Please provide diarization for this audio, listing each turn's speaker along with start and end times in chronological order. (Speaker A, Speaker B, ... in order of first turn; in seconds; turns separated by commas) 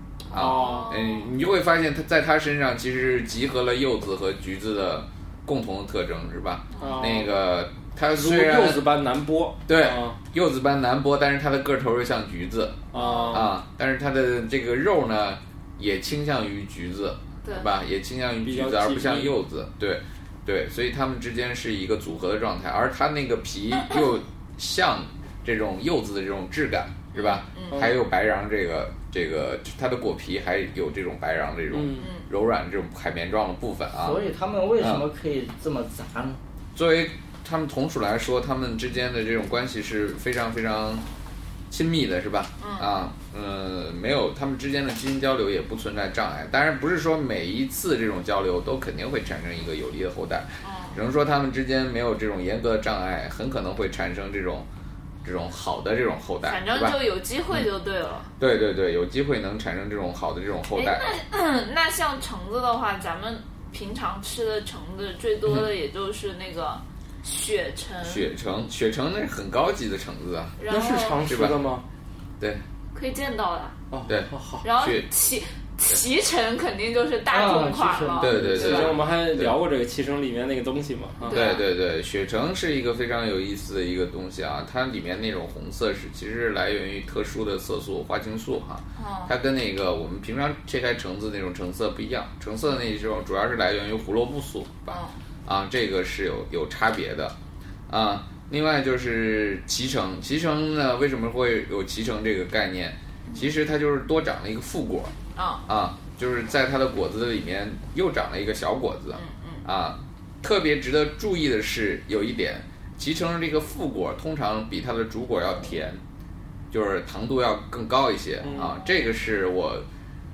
Speaker A: 0.3-8.9, Speaker B: 0.3-0.9, Speaker C: 0.4-1.3, Speaker C: 6.8-7.1, Speaker B: 6.8-7.3, Speaker B: 8.1-10.2, Speaker A: 9.7-35.1, Speaker B: 12.9-13.6, Speaker C: 12.9-13.5, Speaker C: 17.4-17.7, Speaker B: 18.4-19.4, Speaker C: 27.1-27.9, Speaker B: 27.7-28.0, Speaker B: 31.7-32.1, Speaker C: 32.0-32.3, Speaker D: 34.0-36.4, Speaker A: 36.8-41.0, Speaker A: 41.7-54.7, Speaker C: 42.6-43.0, Speaker C: 50.6-51.0, Speaker A: 55.2-57.0, Speaker C: 56.4-58.3, Speaker A: 58.4-61.1, Speaker C: 60.7-68.3, Speaker A: 68.0-70.6, Speaker C: 70.6-71.2, Speaker B: 70.7-71.9, Speaker A: 71.3-71.6, Speaker C: 72.9-73.8, Speaker B: 73.9-74.7, Speaker A: 74.1-75.1, Speaker C: 74.6-79.0, Speaker D: 77.3-78.6, Speaker A: 78.2-79.5, Speaker B: 78.5-81.5, Speaker C: 81.3-81.7, Speaker A: 81.3-97.3, Speaker C: 89.0-89.3, Speaker C: 94.9-95.2, Speaker A: 97.9-105.2, Speaker C: 105.3-105.7, Speaker A: 105.7-116.0, Speaker C: 109.1-109.7, Speaker A: 116.7-119.8, Speaker B: 118.4-118.8